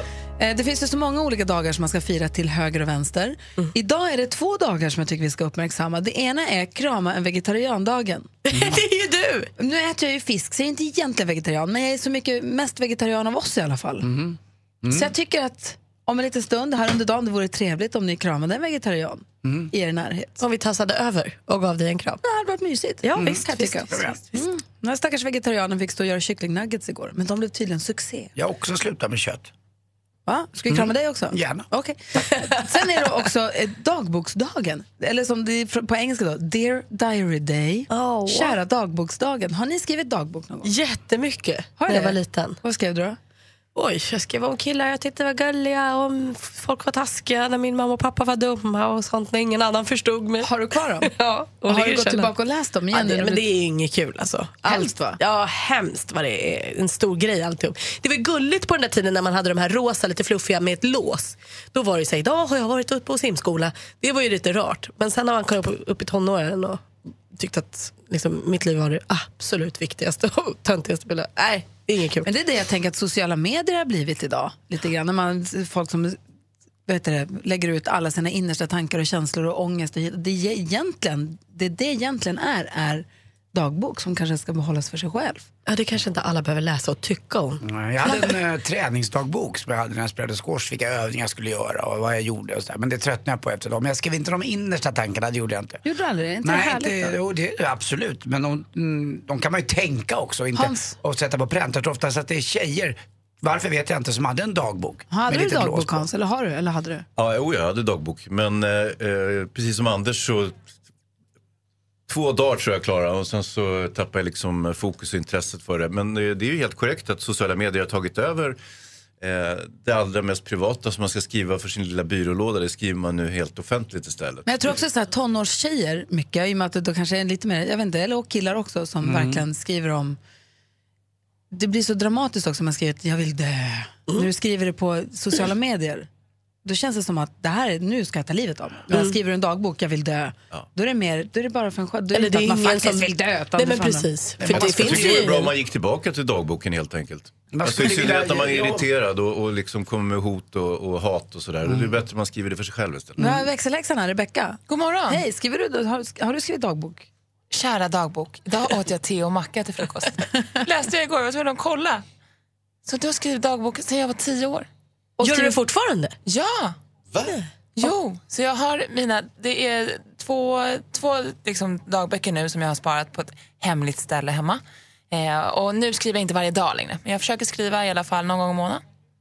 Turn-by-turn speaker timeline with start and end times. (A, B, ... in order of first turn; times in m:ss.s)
0:00.4-0:08.3 A
0:08.5-0:09.5 B
0:08.5-0:08.8 C
0:09.6-0:14.1 A
0:14.0-0:15.1 C
0:14.9-0:20.4 A
0:19.4-0:19.7 C
0:20.4-0:22.2 B
0:22.2-0:28.3 A
0:23.0-0:24.4 B
0:23.2-0:24.2 C
0:28.4-0:29.5 C
0:30.3-0:40.7 A
0:30.7-0:31.7 C
0:37.9-0:38.6 B
0:40.6-0:42.6 B
0:41.8-0:43.2 A
0:43.8-0:50.5 B
0:50.4-0:51.1 A
0:51.0-0:52.3 B
0:51.7-0:53.4 A
0:52.9-1:12.3 B
0:54.6-0:55.2 A
1:12.2-1:16.2 A
1:16.9-1:25.5 A
1:25.7-1:27.6 B
1:27.6-1:35.8 C
1:35.8-1:37.2 A
1:36.4-1:46.1 C
1:40.6-1:41.0 A
1:45.1-1:47.1 A
1:47.2-1:50.6 D
1:52.1-1:58.6 D
1:59.2-2:04.7 D
2:04.5-2:10.2 A
2:09.0-2:09.4 C
2:11.5-2:16.1 A
2:16.6-2:24.1 A
2:22.1-2:25.5 B
2:24.4-2:25.2 C
2:24.5-2:33.3 D
2:27.5-2:28.9 C
2:33.2-2:37.1 A
2:34.7-2:35.2 E
2:37.5-2:42.0 E
2:42.9-2:44.7 E
2:45.2-2:45.6 A
2:45.2-2:46.2 B
2:46.3-2:46.8 E
2:47.8-2:58.8 E